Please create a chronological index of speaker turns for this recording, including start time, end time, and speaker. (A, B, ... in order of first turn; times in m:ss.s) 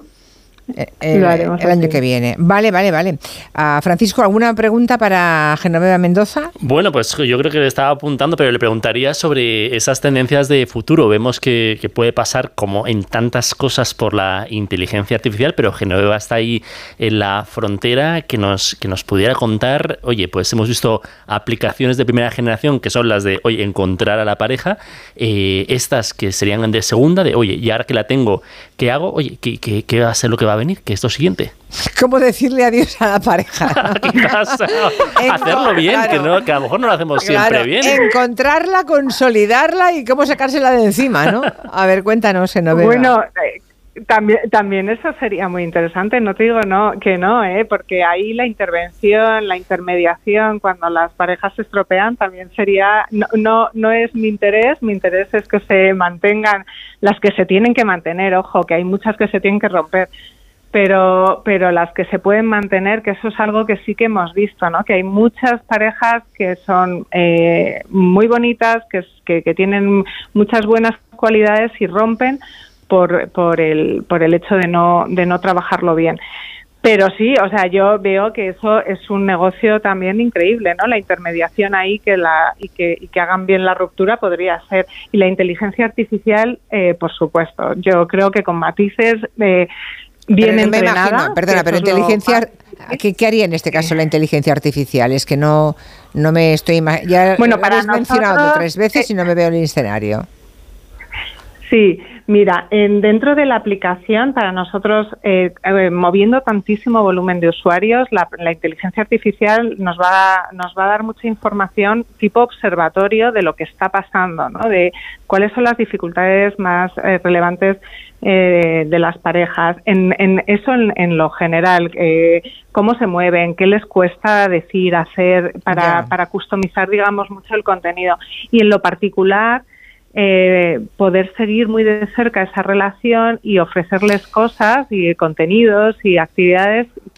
0:00.8-0:06.5 A
0:01.1-0:02.0 B
0:06.6-0:31.5 C
0:31.9-0:34.4 A
0:33.8-0:37.9 C
0:35.2-0:36.4 A
0:37.2-0:43.1 A
0:42.7-0:43.6 B
0:44.1-1:00.1 B
1:00.7-1:12.4 B
1:12.9-1:16.2 B
1:16.8-1:29.7 B
1:30.3-1:33.0 B
1:30.4-1:40.3 A
1:37.4-1:39.0 B
1:41.7-2:09.6 B
2:05.7-2:06.1 A
2:10.2-2:16.9 B